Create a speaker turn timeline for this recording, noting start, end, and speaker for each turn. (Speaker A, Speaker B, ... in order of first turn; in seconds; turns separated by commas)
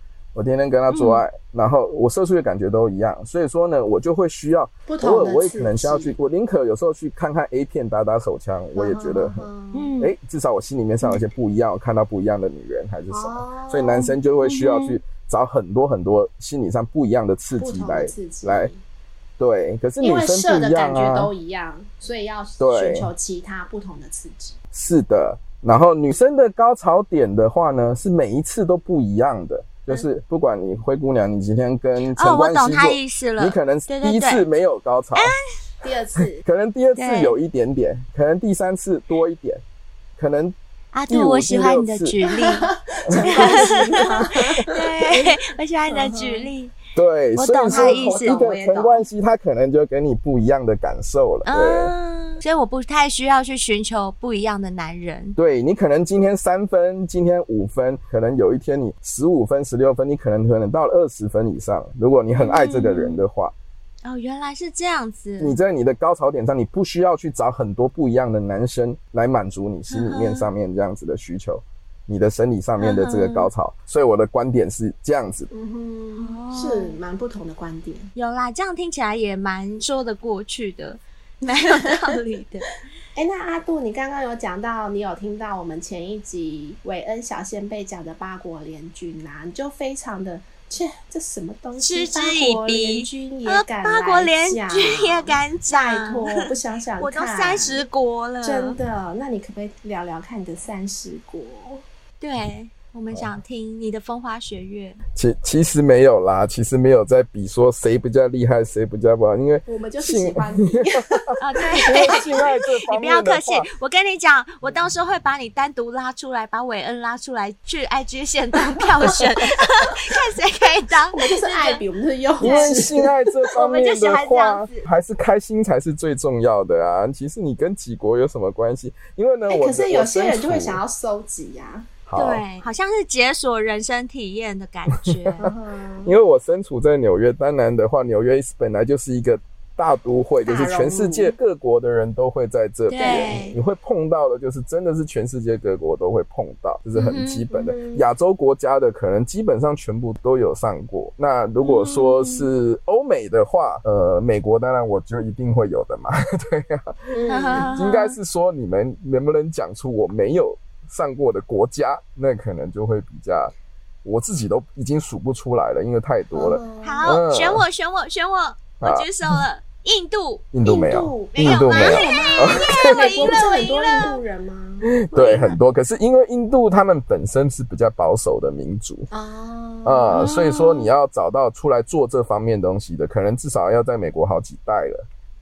Speaker A: 0.3-9.5, Speaker B: 0.9-1.2, Speaker C: 4.9-6.1, Speaker C: 8.7-9.9, Speaker B: 9.7-10.1, Speaker A: 10.0-18.7, Speaker C: 13.1-14.1, Speaker B: 14.4-15.0, Speaker C: 17.6-18.8, Speaker A: 19.4-21.3, Speaker C: 20.0-24.6, Speaker A: 22.6-23.1, Speaker A: 24.7-35.3, Speaker B: 32.1-34.4, Speaker C: 35.8-36.4, Speaker A: 36.4-39.6, Speaker B: 37.0-37.4, Speaker A: 40.2-40.5, Speaker B: 40.9-42.7, Speaker A: 41.1-42.2, Speaker C: 42.3-46.5, Speaker A: 43.1-43.7, Speaker B: 43.2-46.7, Speaker A: 46.9-51.9, Speaker B: 47.4-48.4, Speaker C: 47.7-49.0, Speaker B: 51.5-55.4, Speaker A: 55.4-63.5, Speaker B: 62.4-63.2, Speaker B: 64.0-65.6, Speaker A: 65.4-75.5, Speaker B: 69.9-70.5, Speaker B: 72.8-73.5, Speaker C: 75.5-78.1, Speaker B: 76.2-77.0, Speaker B: 78.1-82.7, Speaker C: 81.8-82.2, Speaker C: 83.1-97.8, Speaker B: 91.8-98.8, Speaker C: 98.4-101.8, Speaker B: 102.2-105.0, Speaker A: 105.1-111.2, Speaker C: 109.7-112.4, Speaker B: 111.4-112.3, Speaker A: 111.8-113.7, Speaker B: 112.9-121.8, Speaker C: 121.1-123.1, Speaker A: 122.4-130.8, Speaker B: 122.4-122.8, Speaker B: 123.5-124.8, Speaker C: 129.5-131.9, Speaker A: 132.1-132.4, Speaker B: 132.1-135.5, Speaker A: 135.0-135.5, Speaker C: 135.4-136.1, Speaker A: 136.0-163.5, Speaker C: 140.4-141.3, Speaker B: 142.9-143.6, Speaker C: 142.9-143.5, Speaker B: 146.9-147.4, Speaker C: 147.5-148.0, Speaker B: 151.6-152.4, Speaker C: 157.1-157.7, Speaker B: 157.3-158.2, Speaker A: 164.0-167.6, Speaker C: 166.3-167.1, Speaker B: 166.8-170.4, Speaker A: 168.8-169.4, Speaker A: 170.5-173.3, Speaker C: 170.6-175.6, Speaker B: 171.3-174.2, Speaker A: 174.9-179.1, Speaker C: 179.1-180.2, Speaker A: 179.8-185.1, Speaker B: 180.1-180.9